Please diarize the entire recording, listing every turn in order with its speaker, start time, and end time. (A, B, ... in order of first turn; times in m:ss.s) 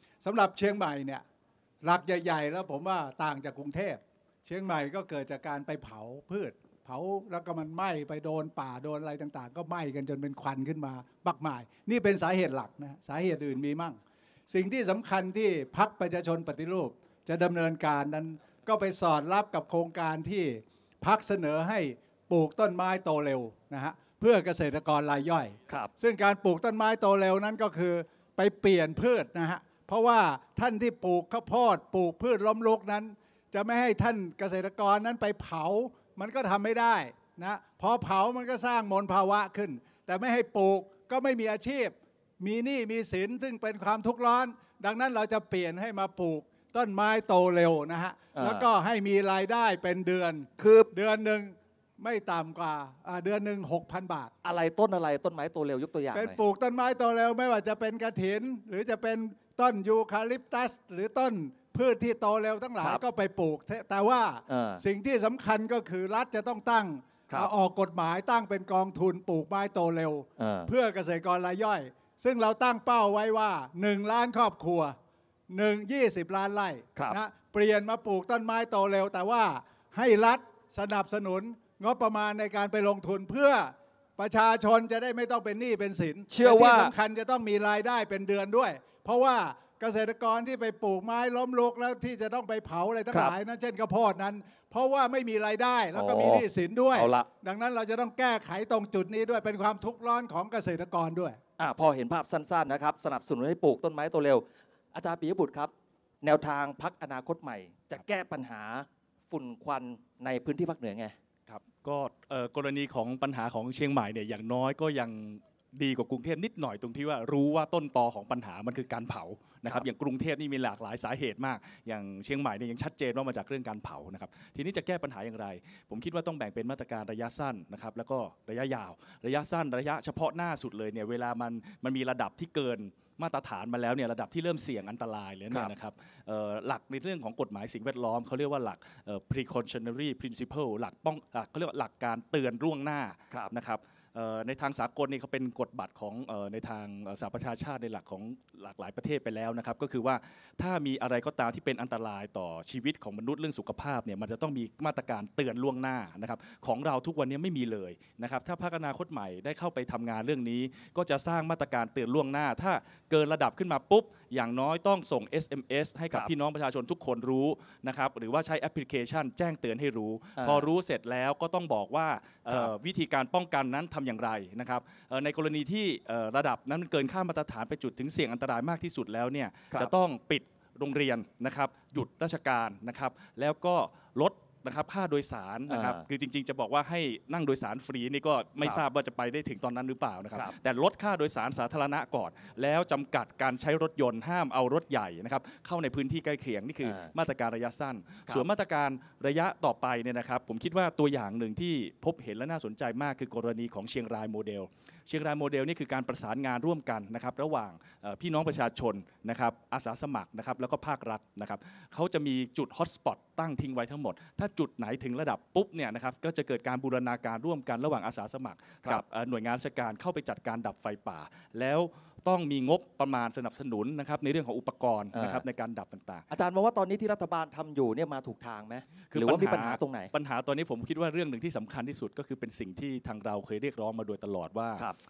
0:00.2-0:01.2 A
0:01.8-0:54.3 A
0:48.4-0:48.7 B
0:50.6-0:50.9 B
0:54.4-0:56.4 B
0:56.1-1:15.0 A
1:04.5-1:04.8 B
1:10.4-1:10.7 B
1:15.5-1:41.4 A
1:26.3-1:26.9 B
1:33.1-1:33.4 B
1:36.0-1:37.3 B
1:41.6-1:51.1 B
1:51.5-3:46.2 C
2:50.4-2:50.7 B
3:05.7-3:06.1 B
3:16.8-3:17.1 B
3:45.1-3:45.4 B
3:46.3-3:50.1 B
3:49.1-3:54.9 C